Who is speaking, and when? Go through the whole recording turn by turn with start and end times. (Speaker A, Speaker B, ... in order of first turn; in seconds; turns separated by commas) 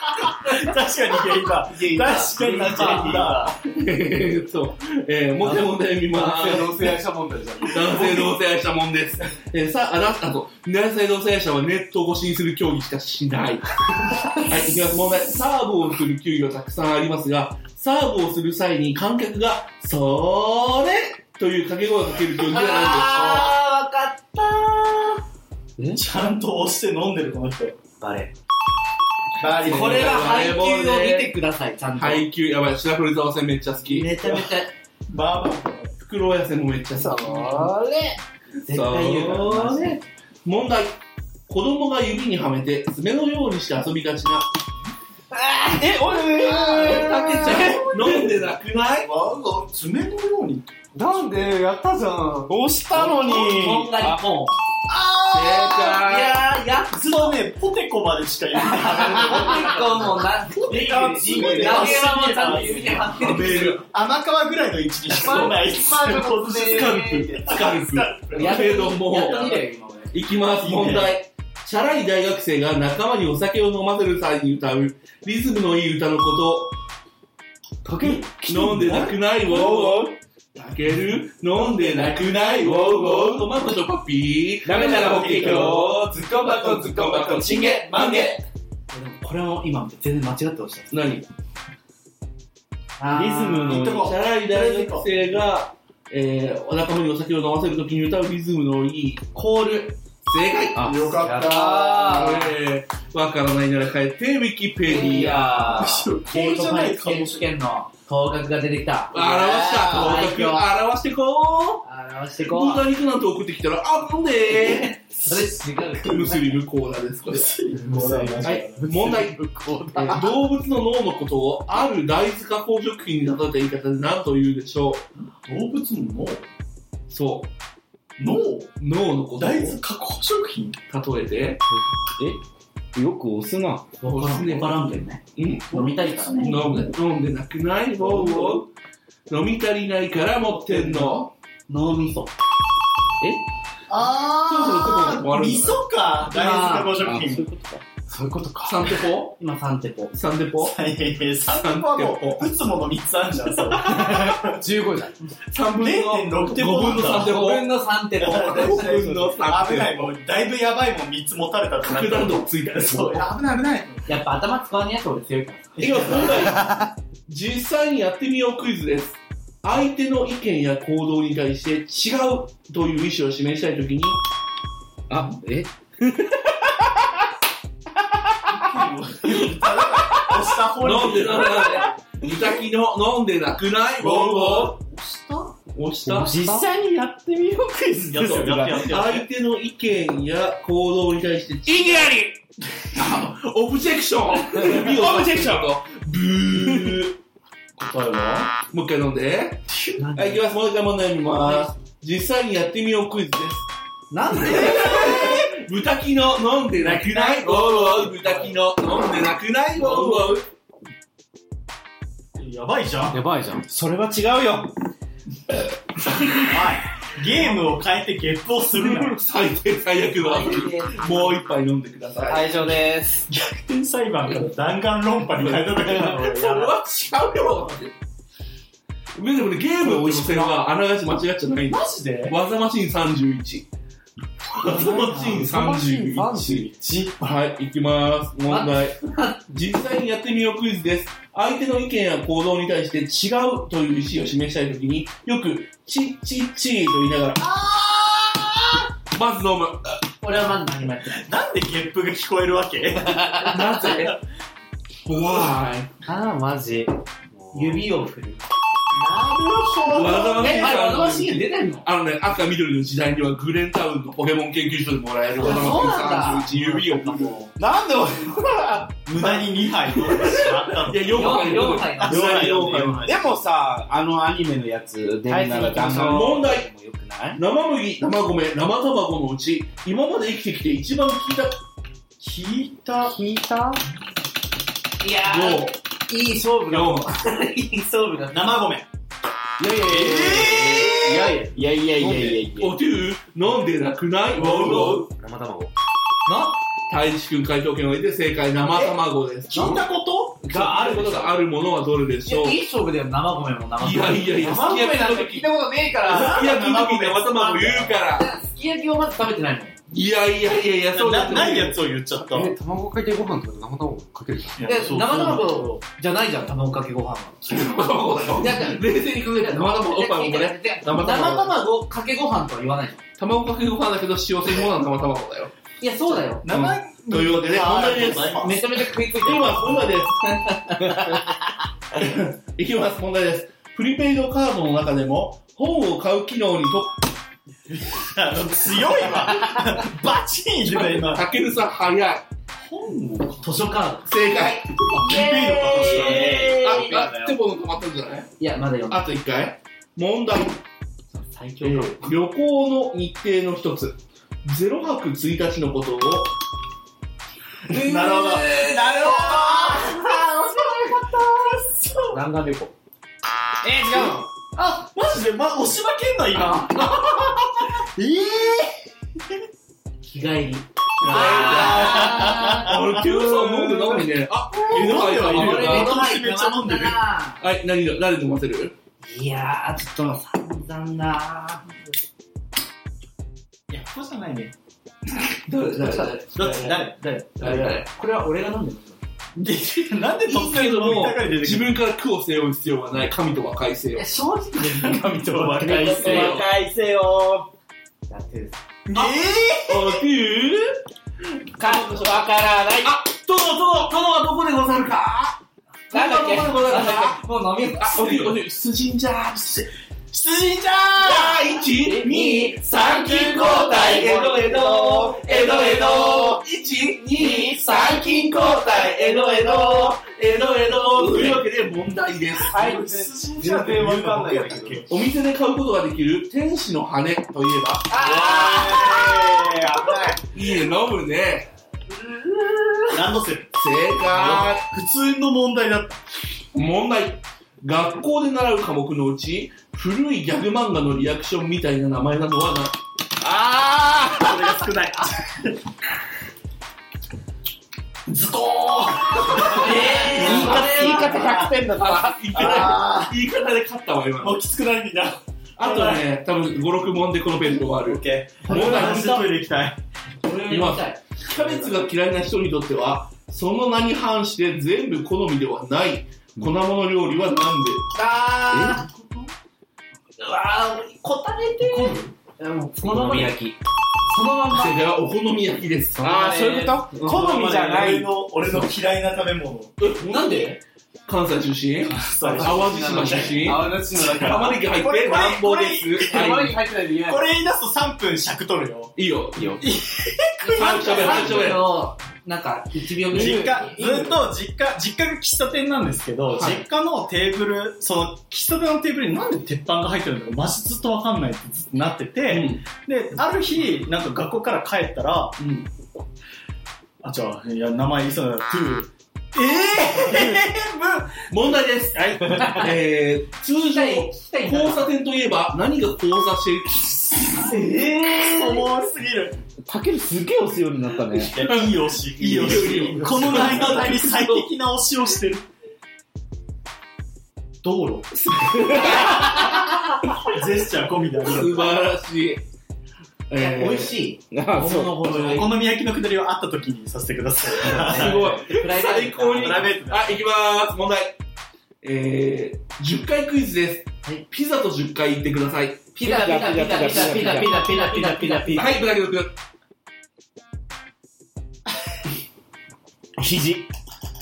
Speaker A: 0.2-3.6, Speaker B: 2.0-3.3, Speaker C: 2.1-7.0, Speaker D: 5.5-8.1, Speaker C: 7.7-13.7, Speaker C: 14.3-23.5, Speaker B: 22.4-25.2, Speaker A: 25.9-27.8, Speaker B: 28.0-28.3, Speaker A: 29.4-30.3, Speaker B: 29.4-32.3, Speaker C: 29.6-31.4, Speaker C: 31.9-34.1, Speaker B: 33.8-34.7, Speaker A: 35.1-35.9, Speaker C: 36.0-37.7, Speaker B: 38.7-40.0, Speaker C: 38.7-44.5, Speaker E: 45.7-47.4, Speaker A: 46.5-48.5, Speaker C: 46.8-49.1, Speaker A: 49.0-51.3, Speaker D: 51.0-52.5, Speaker E: 52.5-54.2, Speaker B: 52.9-54.6, Speaker A: 54.9-56.0, Speaker C: 55.3-56.4, Speaker B: 55.9-57.4, Speaker A: 56.9-69.6, Speaker B: 58.5-63.8, Speaker E: 60.7-62.1, Speaker C: 63.1-63.9, Speaker C: 65.1-65.6, Speaker D: 65.2-67.2, Speaker B: 66.7-67.0, Speaker C: 66.8-69.5, Speaker B: 68.3-70.1, Speaker C: 70.1-76.8, Speaker A: 70.6-71.2, Speaker E: 77.8-80.2, Speaker C: 78.0-88.4, Speaker E: 82.6-83.5, Speaker E: 84.6-86.1, Speaker A: 84.7-85.9, Speaker B: 87.5-88.3, Speaker B: 88.9-90.9, Speaker C: 90.9-91.3, Speaker B: 93.0-93.9, Speaker E: 93.1-94.1, Speaker A: 93.7-95.4, Speaker C: 93.7-99.6, Speaker B: 99.4-99.9, Speaker C: 100.2-101.3, Speaker A: 100.9-102.1, Speaker B: 101.2-102.5, Speaker D: 101.3-101.7, Speaker C: 102.1-105.8, Speaker B: 104.9-110.7, Speaker A: 105.7-107.5, Speaker C: 109.1-111.9, Speaker B: 111.8-112.8, Speaker C: 112.4-115.0, Speaker B: 114.5-116.6, Speaker C: 116.0-117.6, Speaker A: 117.3-119.2, Speaker D: 117.8-120.2, Speaker C: 118.4-119.4, Speaker B: 120.0-120.2, Speaker C: 120.0-125.1, Speaker A: 125.4-126.5, Speaker C: 127.1-127.5, Speaker A: 128.2-128.8, Speaker C: 128.8-129.8, Speaker A: 129.4-130.8, Speaker C: 130.9-131.6, Speaker E: 132.9-133.8, Speaker B: 134.0-136.6, Speaker C: 134.1-134.8, Speaker C: 135.4-138.7, Speaker A: 136.2-136.5, Speaker E: 138.2-138.6, Speaker C: 139.3-141.3, Speaker B: 141.7-142.3, Speaker A: 143.9-147.5, Speaker C: 144.3-145.8, Speaker B: 146.2-147.0, Speaker E: 147.1-147.8, Speaker D: 148.1-149.0, Speaker C: 148.6-149.4, Speaker B: 149.4-150.1, Speaker C: 150.1-150.8, Speaker A: 150.6-154.6, Speaker C: 151.5-152.5, Speaker D: 153.8-155.2, Speaker C: 155.5-160.1, Speaker A: 155.8-157.4, Speaker B: 157.1-159.0, Speaker A: 158.2-164.1, Speaker C: 161.8-163.3, Speaker B: 164.1-165.8, Speaker A: 165.8-166.7, Speaker C: 165.8-174.2, Speaker E: 175.1-175.4, Speaker A: 178.5-181.9, Speaker C: 180.8-184.8, Speaker A: 184.0-185.5, Speaker C: 185.7-186.4, Speaker E: 186.1-187.0, Speaker D: 186.3-186.6, Speaker A: 187.1-189.3, Speaker E: 188.2-188.6, Speaker C: 188.2-192.3, Speaker E: 191.7-192.3, Speaker C: 192.9-197.2, Speaker E: 194.7-195.6, Speaker A: 197.8-198.5, Speaker C: 198.7-203.7, Speaker A: 199.7-200.0, Speaker B: 200.0-200.4, Speaker B: 201.4-201.7, Speaker B: 204.1-205.4, Speaker C: 204.4-210.5, Speaker A: 206.9-208.5, Speaker A: 212.4-213.2, Speaker D: 213.1-213.7, Speaker E: 213.7-214.7, Speaker A: 216.3-219.2, Speaker C: 218.7-222.7, Speaker B: 220.2-221.4, Speaker E: 222.3-223.2, Speaker A: 223.3-226.7, Speaker C: 225.3-227.9, Speaker C: 229.2-233.7, Speaker E: 229.8-230.6, Speaker A: 231.7-232.3, Speaker C: 234.6-247.4, Speaker A: 234.6-235.5, Speaker D: 235.1-236.8, Speaker A: 236.8-237.2, Speaker B: 238.5-239.4, Speaker A: 247.4-248.9, Speaker C: 249.1-250.0, Speaker B: 250.2-251.3, Speaker A: 251.1-254.2, Speaker C: 253.4-254.2, Speaker C: 255.1-255.9, Speaker D: 257.3-257.9, Speaker B: 257.5-258.4, Speaker A: 259.0-260.7, Speaker C: 259.9-267.5, Speaker B: 260.4-261.9, Speaker B: 265.4-266.6, Speaker A: 265.4-265.9, Speaker A: 266.5-267.5, Speaker E: 267.6-268.9, Speaker A: 269.1-273.4, Speaker C: 269.8-273.3, Speaker B: 271.1-272.8, Speaker E: 273.0-277.4, Speaker C: 275.9-276.7, Speaker C: 277.4-281.6, Speaker A: 282.2-283.2, Speaker D: 283.1-283.8, Speaker B: 285.0-288.7, Speaker C: 285.2-285.8, Speaker C: 286.7-287.1, Speaker A: 288.3-288.9, Speaker E: 289.6-292.8, Speaker D: 289.6-291.0, Speaker A: 289.8-291.4, Speaker C: 290.6-290.9, Speaker D: 291.9-292.5, Speaker C: 292.6-295.1, Speaker D: 294.5-295.7, Speaker A: 294.6-295.0, Speaker B: 296.3-296.6, Speaker C: 296.9-299.8, Speaker A: 299.5-300.5, Speaker B: 299.5-299.8, Speaker C: 300.4-302.6, Speaker B: 300.5-301.4, Speaker B: 302.3-305.0, Speaker C: 303.8-305.5, Speaker C: 306.1-308.3, Speaker B: 306.1-306.4, Speaker A: 306.1-307.3, Speaker B: 308.1-309.8, Speaker C: 309.9-311.8, Speaker A: 310.9-312.5, Speaker D: 312.2-314.9, Speaker A: 314.6-315.8, Speaker B: 314.6-317.6, Speaker C: 317.5-321.6, Speaker B: 318.4-323.0, Speaker C: 323.2-325.5, Speaker B: 325.8-326.5, Speaker A: 326.4-328.6, Speaker C: 326.5-330.9, Speaker B: 328.2-331.4, Speaker C: 331.9-337.0, Speaker A: 337.7-341.3, Speaker C: 340.7-342.3, Speaker A: 342.5-343.7, Speaker B: 343.4-344.1, Speaker C: 344.1-344.9, Speaker A: 344.9-347.1, Speaker B: 344.9-347.2, Speaker C: 345.8-348.3, Speaker B: 348.4-349.0, Speaker C: 348.9-350.6, Speaker B: 351.1-352.1, Speaker C: 351.6-356.3, Speaker A: 357.7-362.2, Speaker C: 357.7-359.2, Speaker B: 359.5-360.8, Speaker B: 362.1-362.7, Speaker E: 363.6-364.2, Speaker A: 364.0-368.8, Speaker B: 370.0-372.7, Speaker C: 371.0-376.1, Speaker A: 371.0-374.0, Speaker A: 374.5-377.0, Speaker B: 374.9-377.4, Speaker C: 377.4-378.8, Speaker B: 379.0-381.8, Speaker A: 383.7-384.5, Speaker C: 385.5-386.9, Speaker A: 386.3-387.7, Speaker C: 387.4-387.9, Speaker B: 387.7-389.0, Speaker A: 389.4-391.8, Speaker C: 390.3-394.1, Speaker B: 393.9-396.5, Speaker A: 394.6-396.4, Speaker E: 395.6-397.5, Speaker C: 395.9-396.4, Speaker B: 398.1-398.6, Speaker A: 398.9-400.0, Speaker C: 398.9-400.8, Speaker C: 401.6-402.1, Speaker E: 401.6-402.9, Speaker C: 402.8-405.4, Speaker C: 405.9-409.7, Speaker B: 405.9-408.4, Speaker A: 410.1-411.1, Speaker C: 411.0-423.1, Speaker B: 411.7-416.4, Speaker E: 414.5-415.4, Speaker B: 417.1-420.0, Speaker A: 422.7-424.9, Speaker D: 423.3-424.8, Speaker E: 423.5-424.8, Speaker C: 424.9-427.9, Speaker B: 427.9-429.5, Speaker E: 428.0-430.2, Speaker A: 428.0-429.4, Speaker C: 430.3-431.5, Speaker B: 432.0-432.9, Speaker A: 432.9-433.5, Speaker C: 433.6-434.6, Speaker A: 434.1-436.0, Speaker C: 436.5-442.8, Speaker E: 443.2-444.5, Speaker A: 444.1-445.6, Speaker A: 448.1-451.5, Speaker C: 449.2-454.4, Speaker B: 449.3-451.3, Speaker E: 450.1-452.4, Speaker A: 452.4-453.1, Speaker A: 454.2-456.0, Speaker C: 455.6-459.3, Speaker A: 457.6-459.8, Speaker B: 458.5-459.0, Speaker B: 460.2-461.7, Speaker C: 460.5-467.9, Speaker B: 467.9-468.9, Speaker E: 468.5-468.8, Speaker B: 470.2-474.8, Speaker A: 471.6-472.1, Speaker E: 472.9-473.5, Speaker C: 474.5-476.3, Speaker E: 476.0-478.1, Speaker B: 476.1-476.9, Speaker A: 477.0-479.8, Speaker C: 479.8-486.6, Speaker B: 479.9-480.6, Speaker A: 481.8-488.9, Speaker D: 482.7-484.5, Speaker B: 486.1-487.0, Speaker C: 489.0-489.6, Speaker A: 489.6-491.5, Speaker C: 490.4-491.7, Speaker B: 490.4-493.9, Speaker A: 493.1-505.4, Speaker E: 493.3-494.2, Speaker C: 502.3-502.6, Speaker C: 505.4-505.7, Speaker A: 507.0-511.3, Speaker C: 509.7-510.3, Speaker C: 511.3-517.5, Speaker A: 512.0-512.7, Speaker B: 512.2-512.7, Speaker B: 513.6-514.9, Speaker B: 517.4-518.6, Speaker A: 517.5-519.4, Speaker E: 519.7-521.3, Speaker A: 521.2-525.5, Speaker C: 521.4-524.5, Speaker A: 527.6-529.4, Speaker C: 528.2-529.6, Speaker B: 528.8-529.9, Speaker A: 530.3-531.8, Speaker C: 531.2-532.4, Speaker C: 533.3-535.5, Speaker B: 533.4-535.5, Speaker E: 534.3-535.0, Speaker A: 535.1-538.4, Speaker C: 537.6-541.2, Speaker B: 537.8-539.7, Speaker A: 539.3-540.2, Speaker C: 541.8-545.9, Speaker B: 545.9-548.8, Speaker E: 546.0-547.6, Speaker C: 546.9-549.3, Speaker E: 553.2-553.7